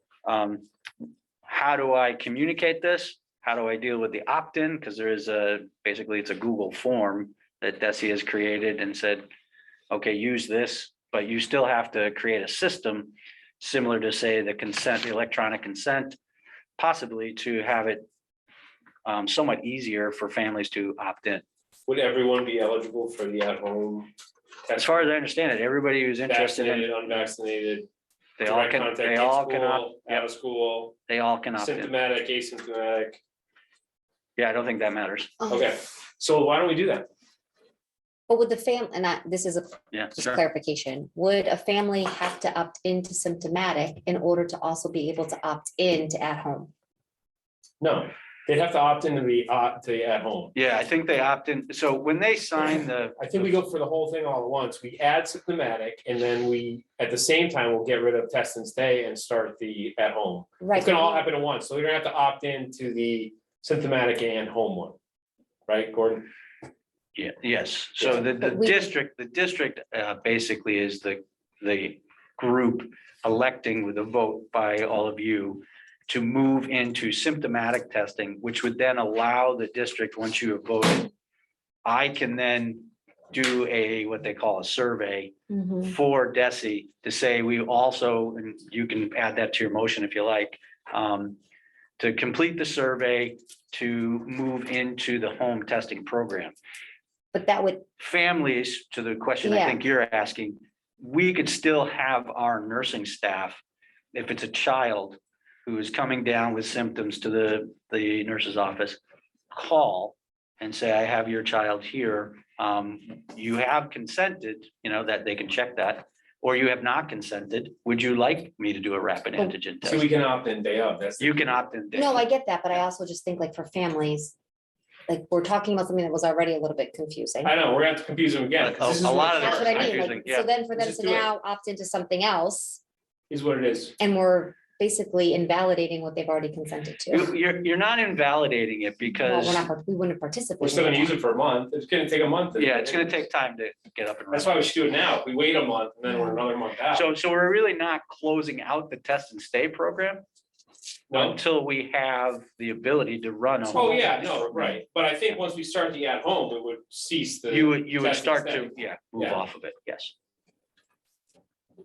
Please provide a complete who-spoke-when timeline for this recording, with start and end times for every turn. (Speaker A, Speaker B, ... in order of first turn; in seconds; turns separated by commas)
Speaker A: 0.2-0.6, Speaker A: 1.5-9.3, Speaker A: 9.9-16.2, Speaker A: 16.8-18.1, Speaker A: 19.1-21.4, Speaker B: 21.9-24.1, Speaker B: 24.7-25.1, Speaker A: 24.8-26.9, Speaker B: 26.3-27.9, Speaker A: 28.4-30.2, Speaker B: 28.4-31.0, Speaker A: 31.1-31.9, Speaker B: 31.6-33.2, Speaker A: 34.4-35.3, Speaker C: 35.4-35.7, Speaker B: 35.5-37.1, Speaker C: 38.3-46.7, Speaker A: 39.9-40.4, Speaker B: 47.8-50.5, Speaker A: 50.5-53.5, Speaker B: 53.2-65.0, Speaker C: 60.6-61.2, Speaker B: 65.7-66.3, Speaker A: 67.2-81.1, Speaker C: 68.1-68.9, Speaker A: 81.8-91.4, Speaker C: 85.5-85.9, Speaker A: 92.0-96.5, Speaker C: 97.3-97.8, Speaker A: 98.0-103.6, Speaker C: 99.4-99.8, Speaker A: 104.1-109.0, Speaker A: 109.5-120.1, Speaker B: 119.8-121.4, Speaker A: 121.2-122.2, Speaker C: 121.9-124.3, Speaker C: 125.1-127.5, Speaker B: 127.4-130.0, Speaker A: 128.6-130.5, Speaker C: 129.3-132.8, Speaker B: 130.8-131.3, Speaker B: 133.3-133.9, Speaker C: 134.0-137.3, Speaker A: 137.1-139.7, Speaker C: 139.2-141.1, Speaker B: 140.6-143.1, Speaker A: 142.6-144.6, Speaker B: 144.3-147.1, Speaker A: 146.9-150.2, Speaker B: 151.1-151.4, Speaker A: 151.1-154.1, Speaker C: 153.7-154.7, Speaker B: 153.7-159.4, Speaker A: 157.5-160.1